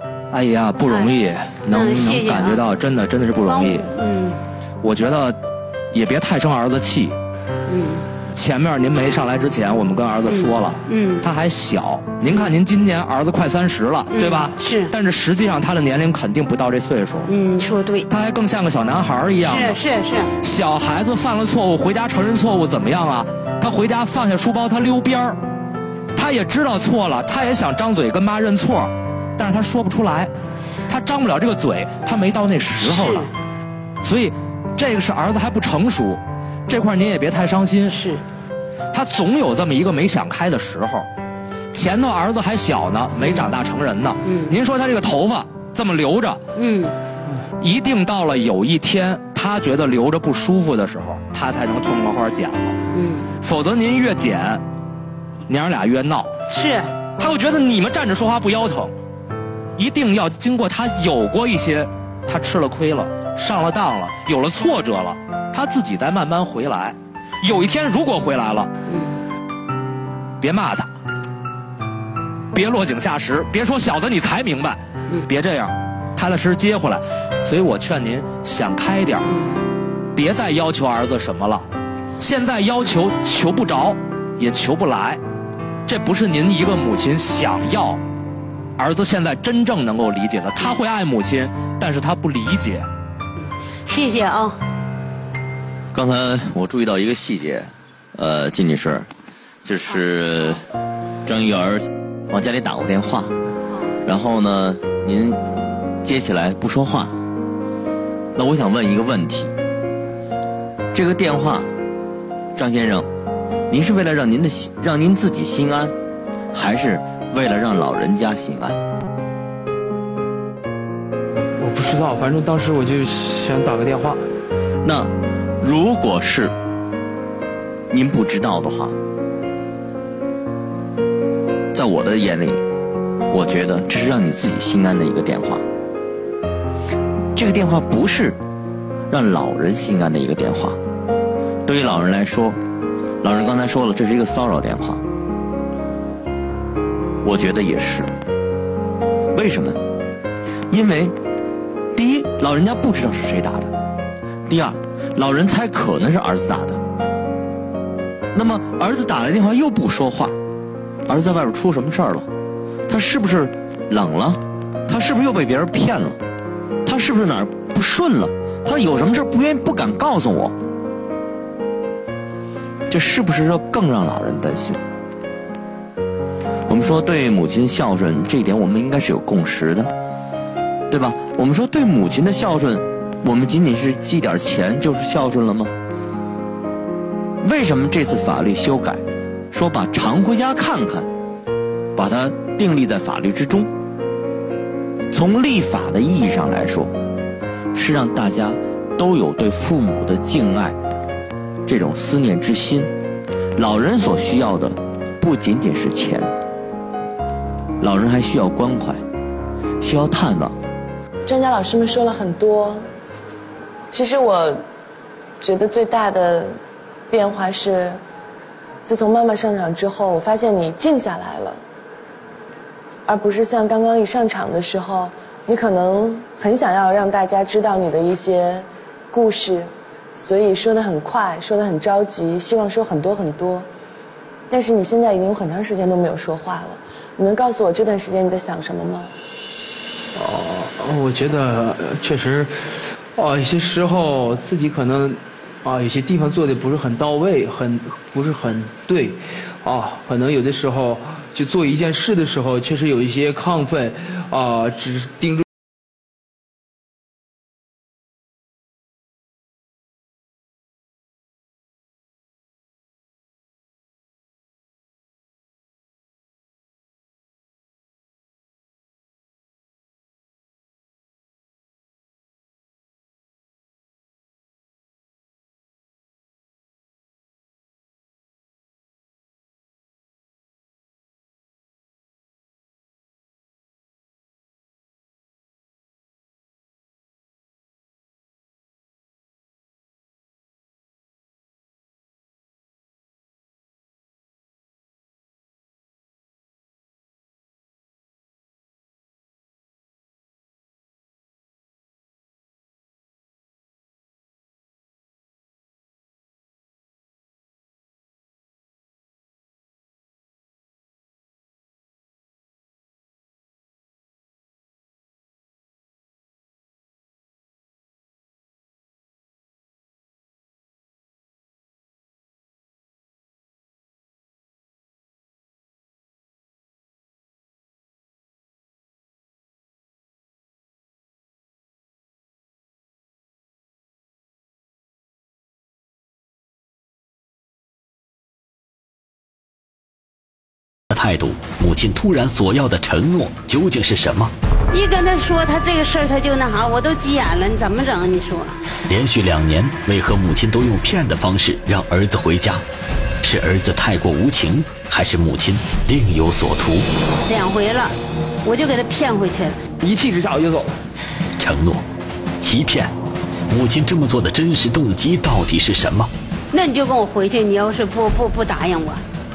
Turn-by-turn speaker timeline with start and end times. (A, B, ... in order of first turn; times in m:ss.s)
0:00.3-0:03.8 A
0:00.8-0:02.7 B
0:03.5-0:04.4 B
0:04.8-0:05.4 A
0:05.9-0:07.2 A
0:07.7-0:08.1 B
0:08.3-0:17.3 A
0:10.2-0:11.2 B
0:12.3-0:12.6 B
0:14.1-0:14.9 B
0:17.3-0:18.1 B
0:18.1-0:19.8 A
0:19.4-0:20.3 B
0:20.4-0:25.4 A
0:26.2-0:30.3 A
0:30.9-0:33.3 A
0:32.8-0:33.3 B
0:34.0-0:38.0 A
0:37.9-0:38.2 B
0:38.9-0:41.1 A
0:41.7-0:46.4 A
0:43.2-0:43.5 B
0:44.2-0:44.5 B
0:46.6-0:47.0 B
0:47.6-0:52.8 A
0:52.9-0:53.3 B
0:53.4-0:54.6 A
0:55.5-0:56.4 A
0:56.5-0:56.9 B
0:57.2-0:58.9 A
0:59.8-1:08.7 A
1:08.9-1:09.2 B
1:10.4-1:10.9 A
1:12.5-1:19.3 A
1:20.2-1:21.7 A
1:22.2-1:25.2 A
1:25.9-1:28.0 A
1:28.8-1:32.9 A
1:33.9-1:34.6 B
1:35.9-1:39.1 C
1:39.6-1:40.6 C
1:41.3-1:43.3 C
1:44.0-1:45.4 C
1:46.0-1:47.2 C
1:48.4-1:49.5 C
1:50.9-1:51.7 C
1:52.6-1:53.1 C
1:53.7-1:56.0 C
1:56.5-1:58.8 C
2:01.6-2:04.3 D
2:04.8-2:06.5 C
2:07.9-2:09.0 C
2:11.7-2:12.6 C
2:13.3-2:15.6 C
2:17.4-2:18.4 C
2:19.1-2:20.8 C
2:21.7-2:22.6 C
2:23.2-2:25.0 C
2:27.2-2:28.1 C
2:29.3-2:29.8 C
2:30.7-2:31.2 C
2:32.0-2:33.7 C
2:34.5-2:36.8 C
2:38.3-2:40.3 C
2:41.1-2:42.3 C
2:42.9-2:46.2 C
2:46.8-2:50.6 C
2:52.9-2:54.8 C
2:56.7-2:59.9 C
3:00.9-3:05.7 C
3:07.4-3:11.1 C
3:12.0-3:13.7 C
3:15.1-3:16.9 C
3:17.7-3:20.8 C
3:21.7-3:22.9 C
3:23.6-3:26.3 C
3:27.8-3:29.0 C
3:29.8-3:30.6 C
3:31.3-3:32.9 E
3:33.9-3:34.6 E
3:35.4-3:36.6 E
3:37.1-3:38.0 E
3:38.8-3:41.6 E
3:43.1-3:53.7 E
3:54.5-3:59.1 E
4:00.2-4:15.4 D
5:40.9-5:44.3 F
5:44.7-5:48.6 B
5:48.9-5:52.6 F
5:53.2-5:56.9 F
5:57.3-5:59.6 B
5:59.8-6:00.7 D
6:01.4-6:01.8 F
6:02.4-6:02.9 F
6:03.5-6:06.1 F
6:06.5-6:09.0 B